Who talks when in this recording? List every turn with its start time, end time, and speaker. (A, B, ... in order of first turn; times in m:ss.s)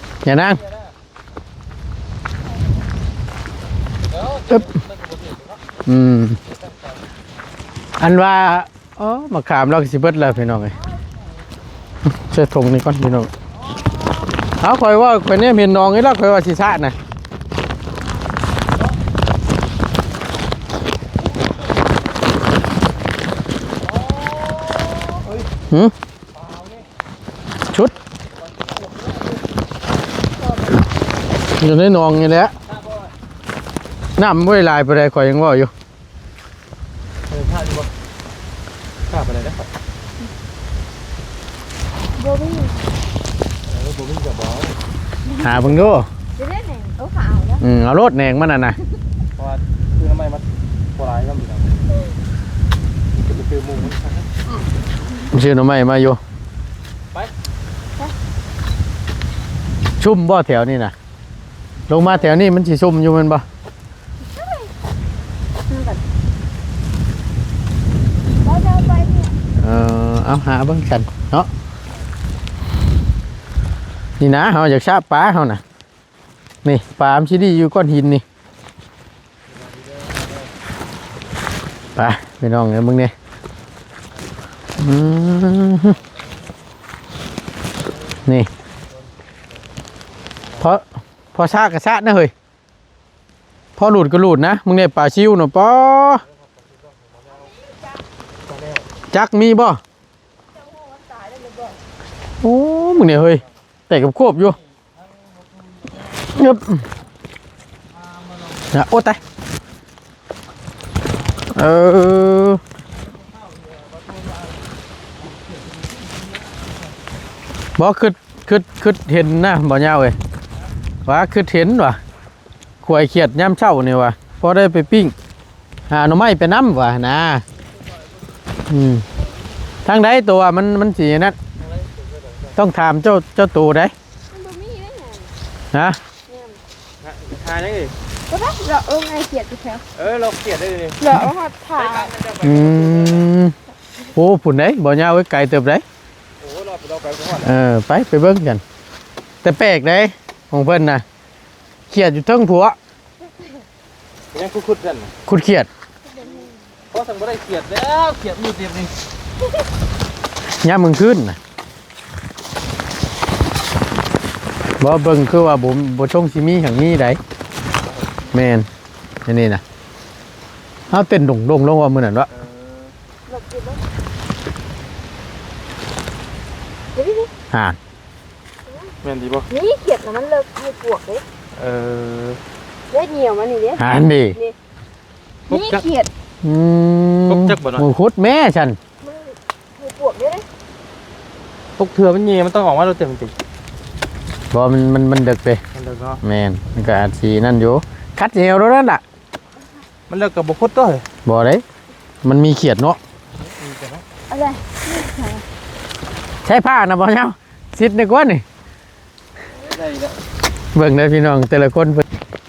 0:00.2-0:00.6 A
0:00.5-0:00.9 B
0:04.1-0:05.6 B
0:05.8-0:06.4 A
0:06.5-0:07.0 B
0:08.0-0:10.7 A
0:12.1-0:13.3 A
0:14.6-0:17.0 A
0:23.9-0:25.5 B
0:26.3-0:26.9 B
0:28.4-0:29.4 B
0:30.4-0:30.7 C
0:31.6-0:32.5 A
0:32.7-0:33.1 B
0:34.2-0:35.7 A
0:37.3-0:37.9 B
0:39.1-0:39.7 B
0:42.2-0:42.9 C
0:43.7-0:44.8 B
0:45.3-0:45.6 C
0:45.4-0:46.1 A
0:46.4-0:47.6 C
0:47.6-0:48.8 A
0:49.4-0:51.7 B
0:53.2-0:54.3 B
0:55.3-0:56.2 A
1:00.0-1:00.9 A
1:01.9-1:03.4 A
1:02.0-1:02.3 C
1:04.2-1:04.7 C
1:05.7-1:06.0 C
1:08.4-1:09.3 C
1:09.6-1:11.5 A
1:14.2-1:15.6 A
1:16.6-1:18.2 A
1:19.5-1:20.5 B
1:22.0-1:23.1 A
1:24.8-1:26.0 A
1:30.6-1:32.3 A
1:33.8-1:36.2 A
1:36.1-1:37.5 B
1:37.4-1:38.0 C
1:38.5-1:38.8 B
1:39.1-1:39.8 A
1:40.5-1:41.8 C
1:42.4-1:44.6 A
1:44.8-1:46.1 B
1:46.3-1:46.8 A
1:48.1-1:48.7 B
1:48.7-1:49.2 A
1:51.5-1:52.6 A
1:53.1-1:54.6 B
1:55.2-1:56.7 B
1:57.8-2:00.2 A
2:01.0-2:02.0 A
2:02.8-2:05.1 A
2:05.9-2:07.4 A
2:08.7-2:09.0 A
2:09.8-2:11.4 A
2:11.6-2:12.6 B
2:12.6-2:13.9 A
2:14.3-2:15.3 C
2:15.7-2:16.0 A
2:16.3-2:16.6 C
2:17.0-2:17.9 B
2:18.3-2:19.8 C
2:20.0-2:21.0 B
2:21.0-2:22.1 C
2:21.8-2:23.3 B
2:22.4-2:23.5 A
2:24.2-2:25.8 A
2:26.4-2:27.5 B
2:27.4-2:28.6 A
2:29.4-2:31.0 A
2:31.9-2:32.8 A
2:34.3-2:35.1 B
2:35.3-2:35.7 A
2:36.0-2:36.6 C
2:36.4-2:38.9 B
2:40.6-2:41.4 A
2:44.8-2:47.2 A
2:47.8-2:48.1 B
2:48.3-2:48.7 A
2:49.2-2:49.6 A
2:50.9-2:52.3 A
2:52.3-2:52.9 B
2:53.3-2:53.8 C
2:56.9-2:57.3 C
2:57.5-2:57.8 A
2:58.7-2:58.9 C
2:59.0-2:59.5 B
2:59.5-3:01.2 C
3:01.5-3:02.4 B
3:02.9-3:04.5 C
3:03.8-3:04.4 A
3:05.5-3:06.1 C
3:05.5-3:05.8 B
3:06.4-3:08.8 A
3:07.3-3:07.9 B
3:09.0-3:10.4 C
3:11.8-3:13.4 B
3:14.5-3:15.6 A
3:15.7-3:16.2 B
3:16.2-3:19.0 A
3:20.1-3:21.0 B
3:21.2-3:21.6 A
3:22.2-3:23.0 A
3:23.4-3:24.0 B
3:24.3-3:25.4 C
3:26.4-3:28.4 A
3:29.6-3:30.2 B
3:30.7-3:32.0 A